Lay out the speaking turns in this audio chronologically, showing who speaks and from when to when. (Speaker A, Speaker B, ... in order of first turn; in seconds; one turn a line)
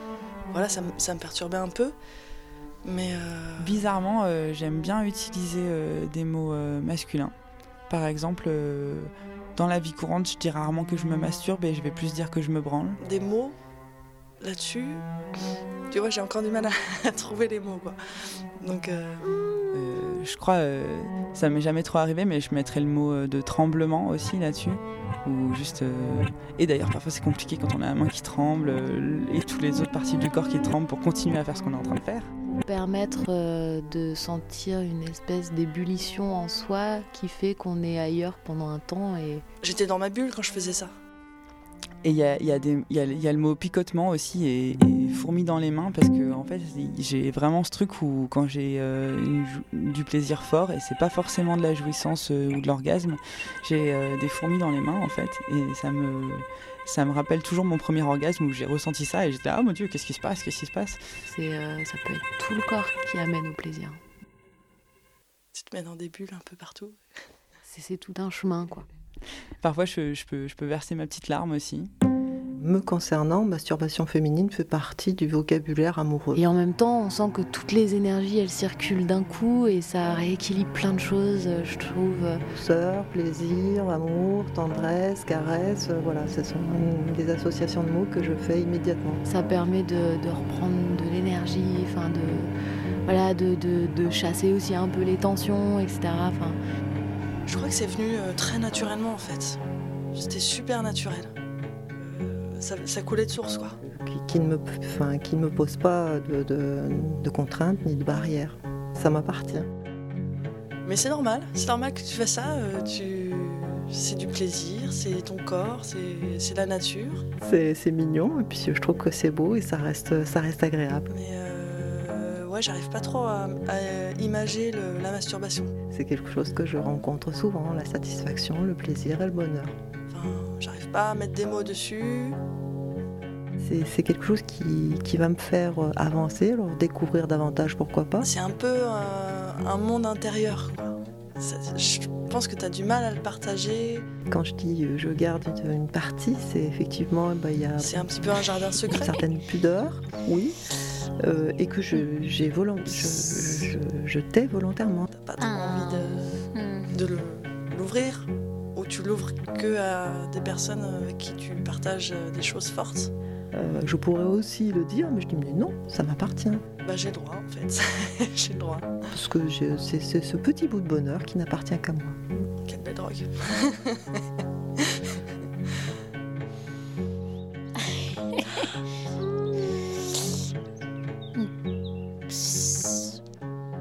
Speaker A: 0.5-1.9
Speaker A: 2.8-3.8
Speaker B: 3.6-7.3
Speaker B: 7.9-13.0
Speaker A: 13.0-13.6
Speaker A: 14.4-15.1
Speaker A: 15.9-18.0
Speaker A: 18.6-19.2
Speaker B: 19.7-32.3
Speaker C: 32.5-39.4
Speaker A: 39.6-41.0
Speaker B: 42.0-61.0
Speaker C: 61.2-64.0
Speaker A: 65.5-67.0
Speaker C: 67.6-68.9
Speaker B: 69.6-71.9
Speaker D: 72.5-76.4
Speaker C: 76.3-82.4
Speaker D: 82.5-89.2
Speaker C: 89.2-92.5
Speaker C: 93.0-96.6
Speaker A: 97.5-99.6
Speaker A: 100.1-101.3
Speaker A: 102.0-103.8
Speaker D: 103.8-109.7
Speaker A: 110.8-117.2
Speaker D: 117.4-121.1
Speaker A: 121.1-125.7
Speaker D: 125.9-129.7
Speaker A: 130.1-132.4
Speaker D: 133.6-138.3
Speaker A: 138.2-144.1
Speaker D: 144.3-150.5
Speaker A: 147.8-149.2
Speaker D: 151.2-155.1
Speaker A: 155.1-156.3
Speaker E: 155.4-156.9
Speaker A: 156.9-163.1
Speaker D: 163.5-166.6
Speaker A: 166.8-169.0
Speaker D: 169.1-172.2
Speaker A: 172.6-174.2
Speaker E: 182.3-183.2